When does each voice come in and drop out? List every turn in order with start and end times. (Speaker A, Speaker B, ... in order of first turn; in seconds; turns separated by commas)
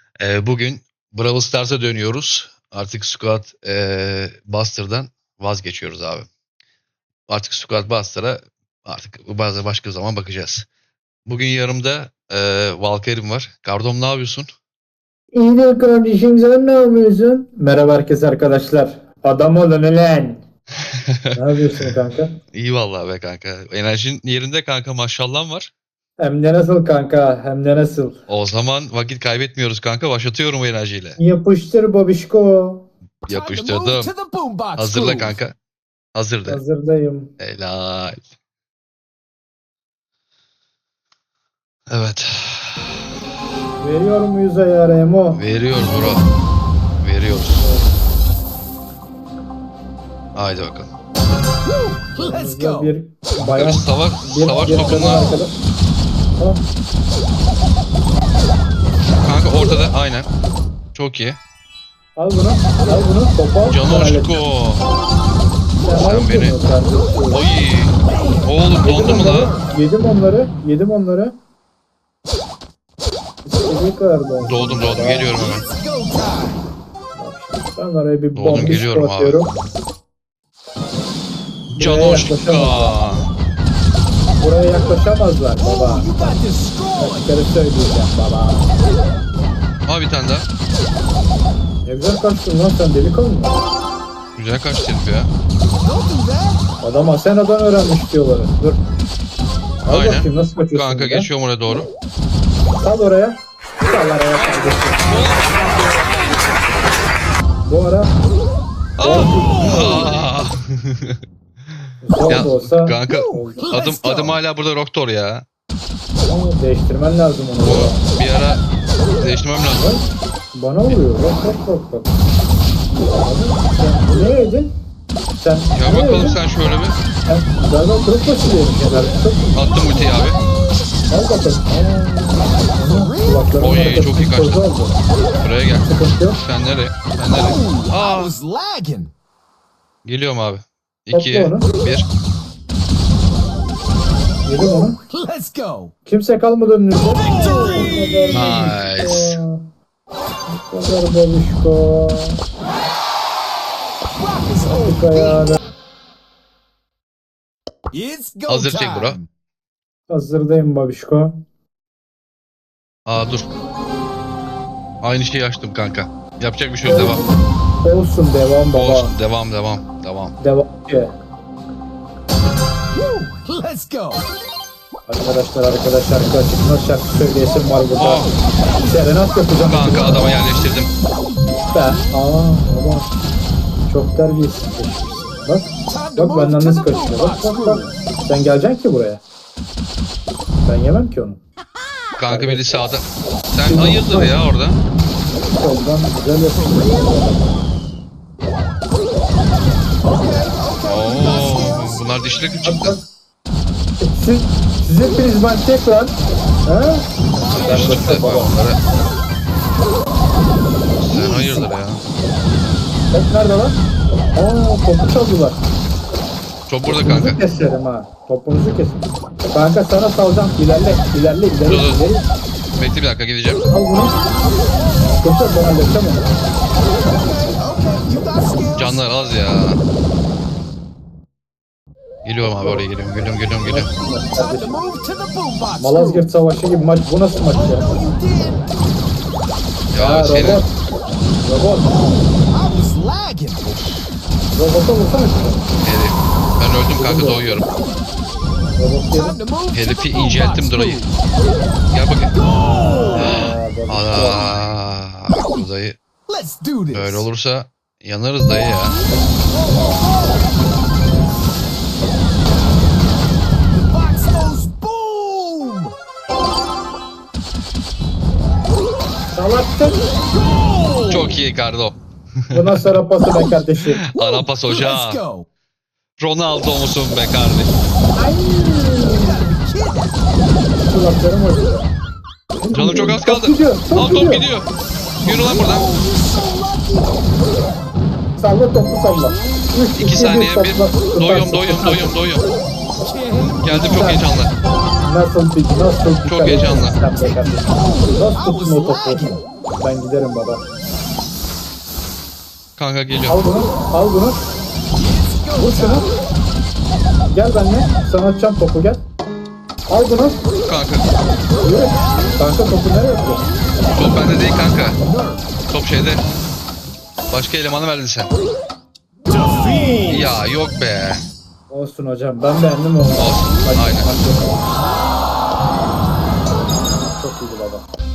Speaker A: 0.2-6.3, Speaker A: 7.3-10.7, Speaker A: 11.3-14.5, Speaker B: 15.3-20.4, Speaker A: 20.9-21.3, Speaker B: 21.3-22.3, Speaker A: 22.5-25.7, Speaker B: 26.2-28.1, Speaker A: 28.3-31.2, Speaker B: 31.2-32.9, Speaker C: 33.3-35.4, Speaker A: 33.3-34.1, Speaker A: 34.8-35.5, Speaker A: 36.1-36.6, Speaker B: 36.5-37.3, Speaker A: 37.4-38.2, Speaker A: 41.9-43.0, Speaker B: 43.8-45.4, Speaker A: 45.3-46.2, Speaker A: 47.0-47.6, Speaker B: 47.5-47.9, Speaker A: 50.3-50.9, Speaker C: 51.6-52.9, Speaker B: 52.2-55.5, Speaker A: 53.4-55.4, Speaker A: 59.2-60.3, Speaker A: 60.9-61.4, Speaker B: 62.1-64.4, Speaker A: 63.7-64.9, Speaker B: 65.8-67.4, Speaker A: 66.0-66.6, Speaker A: 67.3-69.5, Speaker C: 68.2-69.7, Speaker B: 68.9-71.3, Speaker B: 73.4-75.3, Speaker A: 74.4-75.7, Speaker C: 75.3-76.7, Speaker B: 77.1-79.5, Speaker A: 78.3-79.4, Speaker A: 81.7-83.3, Speaker B: 81.8-83.0, Speaker B: 84.4-86.4, Speaker C: 85.6-87.2, Speaker B: 87.0-88.7, Speaker A: 89.9-90.5, Speaker B: 91.8-93.6, Speaker A: 94.3-95.3, Speaker C: 95.8-96.6, Speaker B: 96.8-98.8, Speaker B: 99.8-101.3, Speaker A: 99.9-101.9, Speaker B: 102.8-105.4, Speaker A: 105.1-106.0, Speaker B: 107.6-108.2, Speaker A: 109.0-111.2, Speaker B: 109.0-110.1, Speaker B: 112.0-113.6, Speaker A: 112.3-115.4, Speaker C: 113.1-114.4, Speaker B: 116.2-118.0, Speaker A: 117.6-118.6, Speaker A: 119.2-119.9, Speaker B: 119.8-122.2, Speaker B: 123.0-124.7, Speaker B: 125.4-126.4, Speaker A: 125.7-127.0, Speaker B: 127.3-129.5, Speaker A: 129.5-130.4, Speaker C: 129.8-130.7, Speaker B: 131.1-135.0, Speaker C: 132.8-133.5, Speaker A: 133.6-134.6, Speaker A: 135.4-135.9, Speaker B: 135.8-136.4, Speaker A: 136.4-138.3, Speaker C: 137.3-139.1, Speaker A: 140.0-142.1, Speaker B: 141.1-141.7, Speaker B: 144.4-145.0, Speaker C: 145.1-145.9, Speaker B: 146.1-149.6, Speaker C: 147.2-148.3, Speaker A: 148.3-149.4, Speaker B: 150.5-152.4, Speaker C: 154.2-155.4, Speaker B: 154.6-155.6, Speaker C: 157.9-159.2, Speaker A: 158.5-159.2, Speaker B: 160.1-161.4, Speaker A: 163.1-163.5, Speaker A: 165.0-167.2, Speaker B: 166.8-169.1, Speaker A: 168.7-170.3, Speaker B: 170.4-171.1, Speaker C: 172.9-174.3, Speaker B: 175.1-178.3, Speaker A: 178.0-178.3, Speaker B: 178.8-180.3, Speaker A: 179.7-180.9, Speaker B: 181.7-183.1, Speaker B: 183.9-189.2, Speaker C: 185.9-187.9, Speaker B: 190.6-191.4, Speaker A: 192.2-194.8, Speaker B: 192.3-192.8, Speaker B: 193.6-194.4, Speaker B: 195.4-197.6, Speaker C: 196.5-197.1, Speaker C: 200.1-202.0, Speaker A: 200.8-202.9, Speaker B: 202.6-203.0, Speaker B: 204.0-207.1, Speaker A: 207.5-208.8, Speaker B: 207.6-208.5, Speaker A: 211.0-212.0, Speaker B: 211.2-211.7, Speaker B: 213.1-213.8, Speaker B: 214.3-215.6, Speaker A: 216.7-217.4, Speaker B: 216.8-222.2, Speaker A: 221.6-222.1, Speaker A: 222.8-223.6, Speaker B: 223.7-224.2, Speaker B: 225.1-226.4, Speaker C: 227.0-229.0, Speaker A: 228.8-229.8, Speaker A: 232.2-233.9, Speaker B: 232.4-232.8, Speaker B: 233.6-234.8, Speaker C: 234.3-236.3, Speaker B: 235.8-237.9, Speaker C: 237.5-238.7, Speaker A: 239.9-240.6, Speaker B: 240.0-240.7, Speaker B: 241.4-241.9, Speaker C: 241.8-243.7, Speaker B: 244.5-245.7, Speaker A: 245.8-247.7, Speaker B: 247.0-247.4, Speaker B: 248.8-249.4, Speaker C: 249.2-251.1, Speaker A: 249.7-251.1, Speaker A: 251.9-252.3, Speaker C: 252.3-253.3, Speaker B: 253.1-254.5, Speaker A: 253.2-256.0, Speaker C: 256.3-257.2, Speaker A: 256.9-259.0, Speaker C: 259.5-260.5, Speaker C: 263.7-265.9, Speaker B: 269.3-270.1, Speaker C: 270.3-271.4, Speaker A: 271.1-272.9, Speaker B: 272.5-274.1, Speaker A: 274.1-275.2, Speaker C: 274.2-275.4, Speaker A: 276.2-277.7, Speaker B: 278.1-279.6, Speaker C: 279.1-280.2, Speaker B: 280.8-281.9, Speaker B: 282.6-284.4, Speaker A: 282.7-284.7, Speaker A: 285.2-285.9, Speaker C: 285.2-287.2, Speaker B: 288.4-292.1, Speaker C: 289.1-289.5, Speaker A: 289.9-292.4, Speaker C: 293.0-294.2, Speaker A: 293.6-294.5, Speaker B: 293.9-294.2, Speaker B: 295.0-300.6, Speaker A: 296.2-297.0, Speaker C: 297.1-299.4, Speaker A: 302.8-303.4, Speaker B: 303.3-304.4, Speaker C: 304.9-306.2, Speaker B: 305.6-306.1, Speaker B: 307.3-309.0, Speaker B: 309.9-310.4, Speaker A: 310.6-311.1, Speaker B: 311.6-313.5, Speaker C: 312.0-312.3, Speaker A: 313.9-315.0, Speaker C: 315.0-315.5, Speaker A: 315.7-316.2, Speaker A: 317.3-318.3, Speaker C: 319.3-320.0, Speaker A: 320.1-321.2, Speaker B: 321.7-324.7, Speaker A: 323.1-324.1, Speaker B: 327.1-327.9